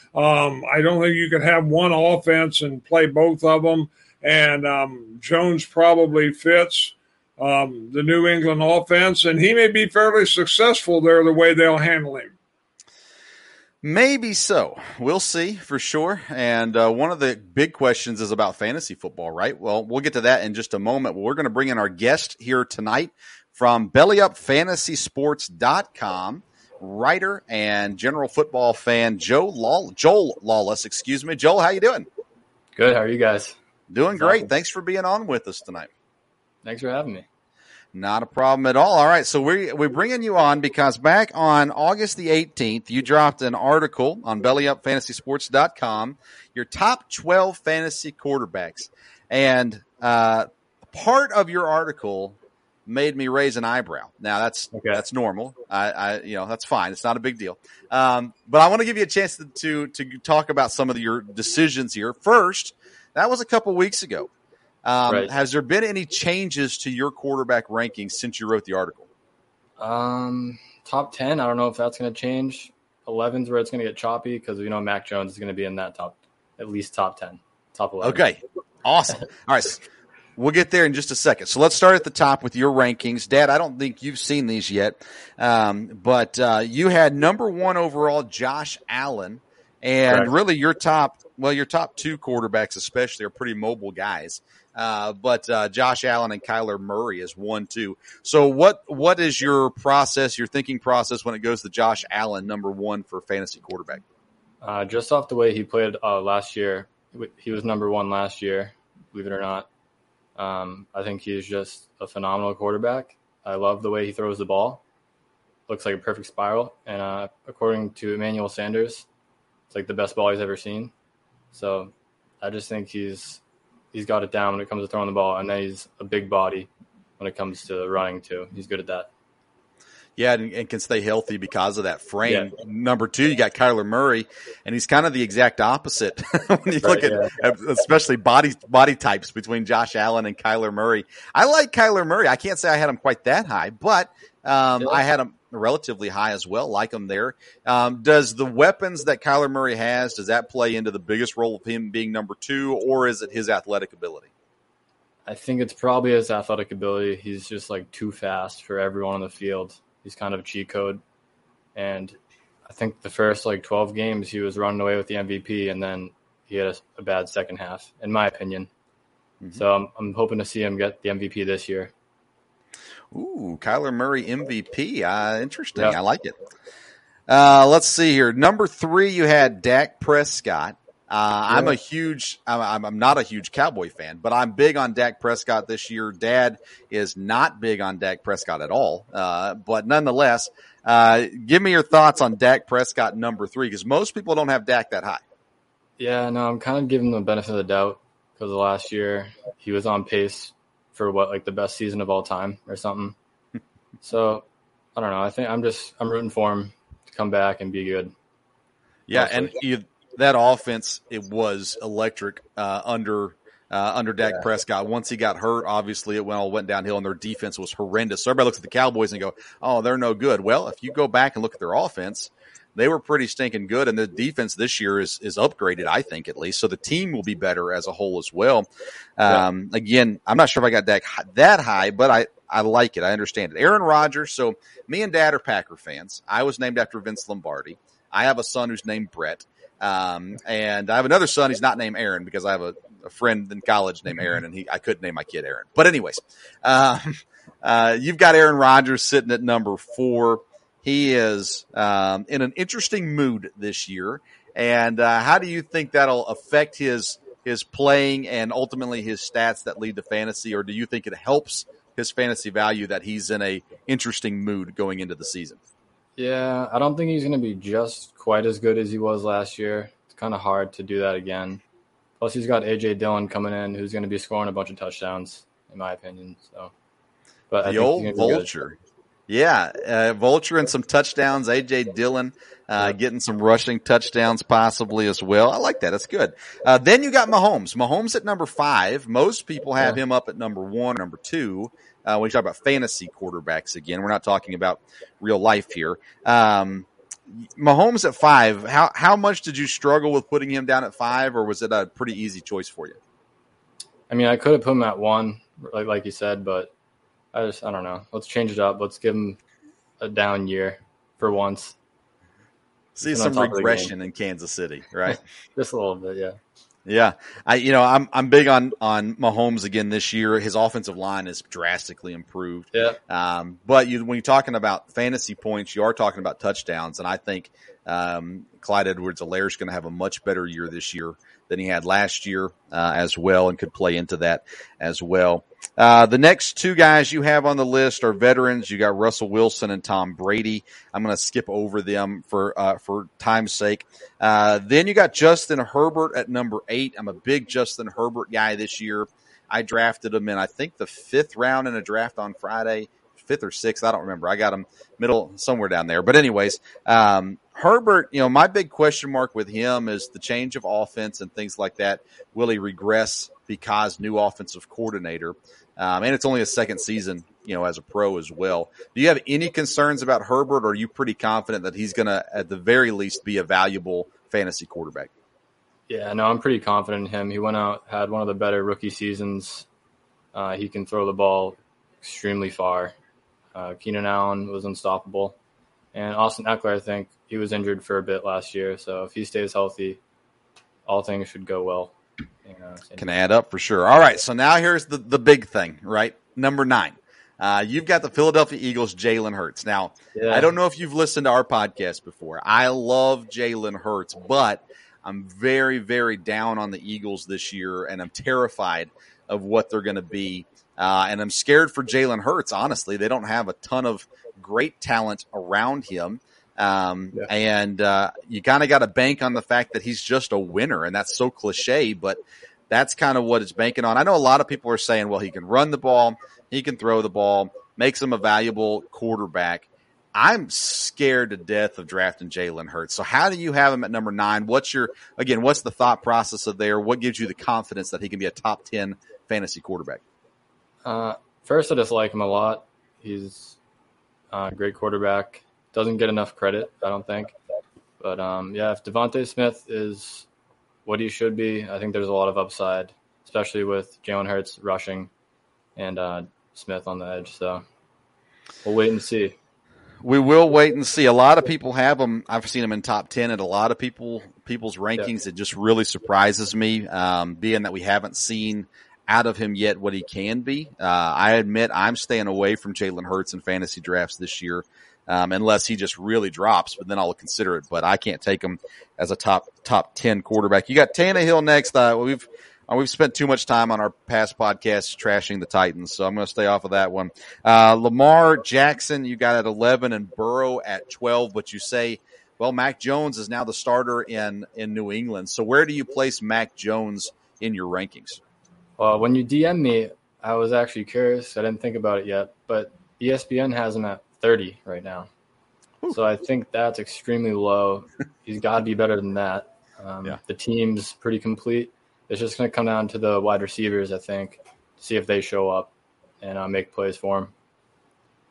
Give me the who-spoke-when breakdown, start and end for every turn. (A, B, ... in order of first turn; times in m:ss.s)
0:00.1-0:12.3 A
0:13.8-0:32.1 B
0:32.8-0:33.6 C
0:33.9-0:35.9 B
0:34.2-0:34.5 C
0:36.6-0:37.2 C
0:37.9-1:04.3 B
0:54.7-0:55.0 C
1:04.8-1:09.1 B
1:05.1-1:05.3 C
1:09.8-1:18.3 C
1:18.0-1:19.8 B
1:20.4-1:44.0 B
1:44.6-1:49.7 C
1:50.4-1:54.8 C
1:55.7-1:59.1 C
1:59.7-2:00.9 C
2:01.5-2:03.4 C
2:03.9-2:09.1 C
2:10.2-2:34.3 B
2:12.2-2:12.5 C
2:16.8-2:17.4 C
2:35.2-2:41.0 C
2:41.8-2:48.7 C
2:49.5-2:51.9 C
2:53.1-2:56.4 B
2:57.3-3:15.2 B
3:01.5-3:01.8 C
3:16.0-3:23.2 C
3:24.0-3:24.4 C
3:25.0-3:28.1 C
3:29.1-4:25.6 B
3:29.1-3:29.5 C
4:26.2-4:31.6 C
4:32.2-4:36.7 C
4:37.5-4:38.5 C
4:37.6-4:38.8 B
4:39.3-5:03.0 B
5:04.1-5:06.7 C
5:07.3-5:09.4 C
5:10.0-5:11.8 C
5:13.0-5:15.2 B
5:13.0-5:13.9 C
5:15.1-5:16.4 C
5:16.9-6:15.1 B
5:22.7-5:23.0 C
6:15.9-6:19.7 C
6:20.3-6:23.0 C
6:23.6-6:25.4 C
6:25.9-6:30.0 C
6:30.8-6:31.9 C
6:32.4-6:33.0 C
6:33.0-7:02.2 B
6:40.2-6:40.5 C
7:02.7-7:20.0 B
7:20.8-7:23.6 C
7:24.3-7:27.4 C
7:28.0-7:30.3 C
7:30.8-7:35.1 C
7:35.8-7:37.6 C
7:38.6-7:39.4 C
7:40.0-8:18.2 B
8:18.8-8:25.1 C
8:25.9-8:37.3 C